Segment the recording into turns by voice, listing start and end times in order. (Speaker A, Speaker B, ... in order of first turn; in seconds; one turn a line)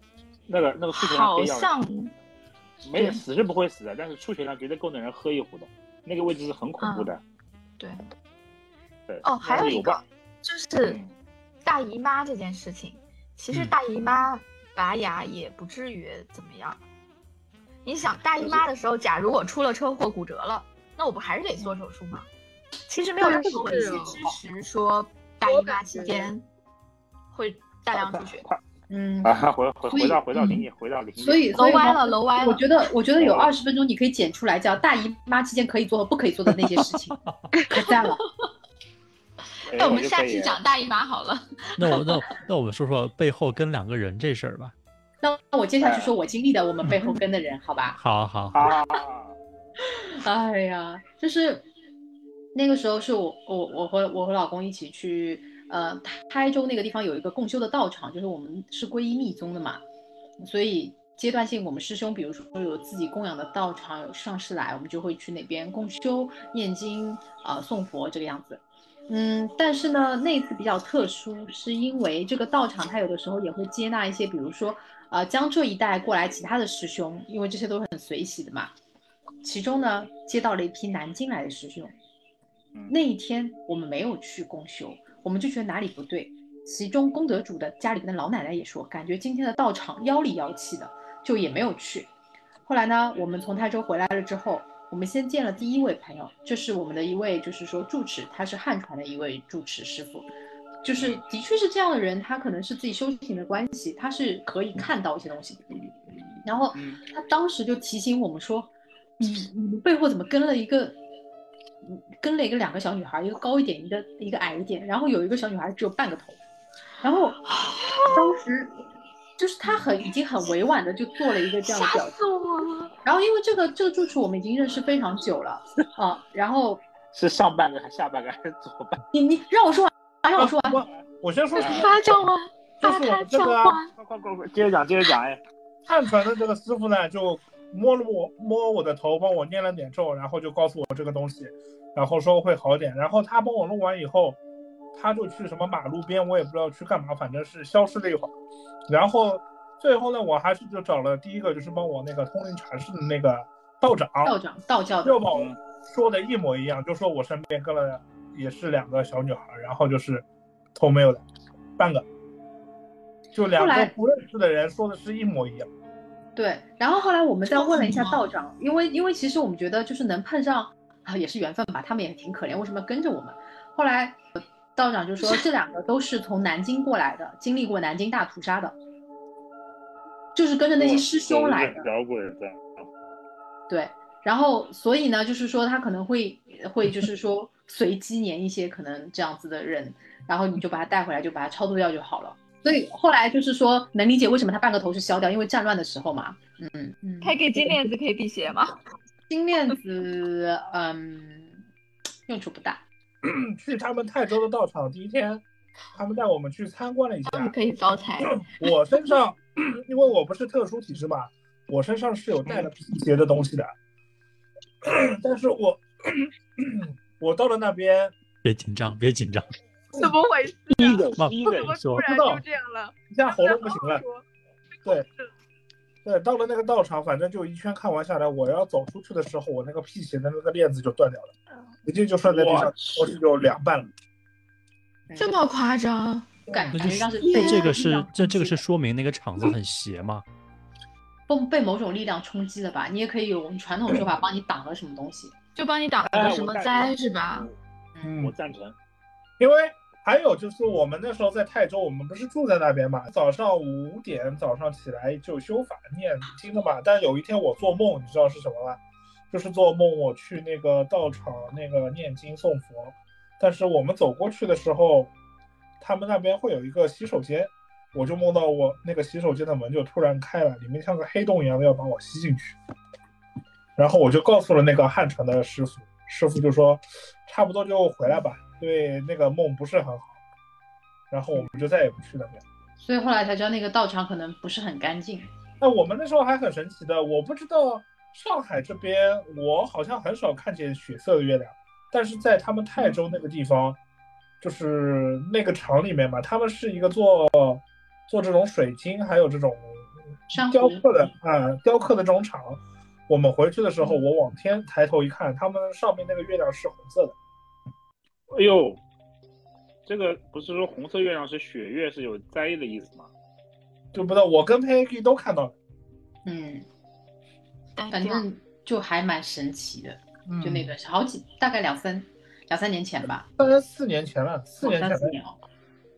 Speaker A: 0.5-1.8
Speaker B: 0.9-2.1
Speaker A: 2.8-7.2
Speaker B: 2.9-3.2
Speaker B: 6.8-7.1
Speaker B: 7.8-8.1
Speaker A: 9.1-10.0
Speaker B: 9.2-11.0
Speaker A: 10.8-11.1
Speaker B: 11.6-16.8
Speaker B: 17.8-22.3
Speaker B: 22.9-26.4
Speaker C: 23.2-24.4
Speaker C: 25.4-26.3
Speaker B: 27.3-28.4
Speaker A: 27.9-28.6
Speaker D: 28.9-29.3
Speaker A: 29.2-31.6
Speaker D: 29.9-30.6
Speaker D: 31.2-37.1
Speaker B: 31.5-32.6
Speaker A: 33.2-33.5
Speaker E: 37.1-37.5
Speaker D: 37.7-38.2
Speaker B: 37.7-38.5
Speaker A: 39.7-40.6
Speaker B: 39.7-42.4
Speaker E: 41.8-44.7
Speaker D: 45.2-48.0
Speaker A: 45.8-46.1
Speaker E: 46.8-47.1
Speaker E: 48.0-48.7
Speaker A: 48.5-49.3
Speaker D: 50.2-51.6
Speaker D: 52.5-59.8
Speaker D: 60.4-78.7
Speaker D: 79.4-81.9
Speaker D: 82.9-92.1
Speaker D: 92.6-100.3
Speaker D: 100.8-105.7
Speaker D: 106.4-111.0
Speaker A: 106.7-107.0
Speaker D: 111.8-116.4
Speaker D: 117.0-117.4
Speaker B: 117.6-118.2
Speaker D: 118.0-118.7
Speaker D: 119.4-122.2
Speaker B: 121.6-122.9
Speaker D: 123.0-126.8
Speaker A: 127.1-129.0
Speaker D: 129.1-130.8
Speaker F: 130.3-133.8
Speaker A: 131.6-131.9
Speaker B: 131.6-133.9
Speaker A: 134.0-135.4
Speaker F: 135.8-144.4
Speaker F: 144.9-148.3
Speaker F: 148.9-154.4
Speaker D: 154.2-155.2
Speaker F: 155.0-161.2
Speaker F: 161.8-162.0
Speaker F: 163.3-165.7
Speaker D: 163.5-163.9
Speaker D: 166.3-178.8
Speaker B: 167.5-168.2
Speaker D: 180.3-181.9
Speaker A: 180.8-182.8
Speaker D: 183.7-197.8
Speaker B: 197.2-198.7
Speaker D: 199.3-201.6
Speaker D: 202.3-202.8
Speaker F: 203.2-207.6
Speaker B: 207.2-208.5
Speaker F: 208.2-213.7
Speaker F: 214.8-218.1
Speaker E: 218.4-219.5
Speaker C: 219.9-224.2
Speaker A: 220.7-221.6
Speaker E: 221.2-222.1
Speaker F: 222.0-222.4
Speaker F: 223.1-224.0
Speaker C: 224.8-225.3
Speaker F: 226.0-231.3
Speaker F: 231.8-233.9
Speaker A: 232.2-233.2
Speaker D: 235.1-235.3
Speaker B: 235.2-236.4
Speaker D: 236.5-238.6
Speaker E: 236.7-240.2
Speaker B: 237.2-237.8
Speaker D: 241.3-245.4
Speaker B: 245.5-247.5
Speaker A: 246.1-247.5
Speaker F: 248.0-248.3
Speaker A: 248.1-248.7
Speaker F: 249.4-258.8
Speaker F: 259.3-265.1
Speaker F: 265.8-272.6
Speaker F: 273.8-280.2
Speaker F: 281.1-282.4
Speaker D: 282.8-285.3
Speaker F: 285.6-293.8
Speaker F: 294.4-307.1
Speaker D: 300.3-300.8
Speaker A: 308.3-308.8
Speaker A: 309.9-313.1
Speaker F: 313.9-315.5
Speaker D: 316.2-316.6
Speaker B: 317.8-318.2
Speaker D: 317.9-323.3
Speaker F: 320.2-320.7
Speaker F: 323.4-325.1
Speaker D: 324.6-325.4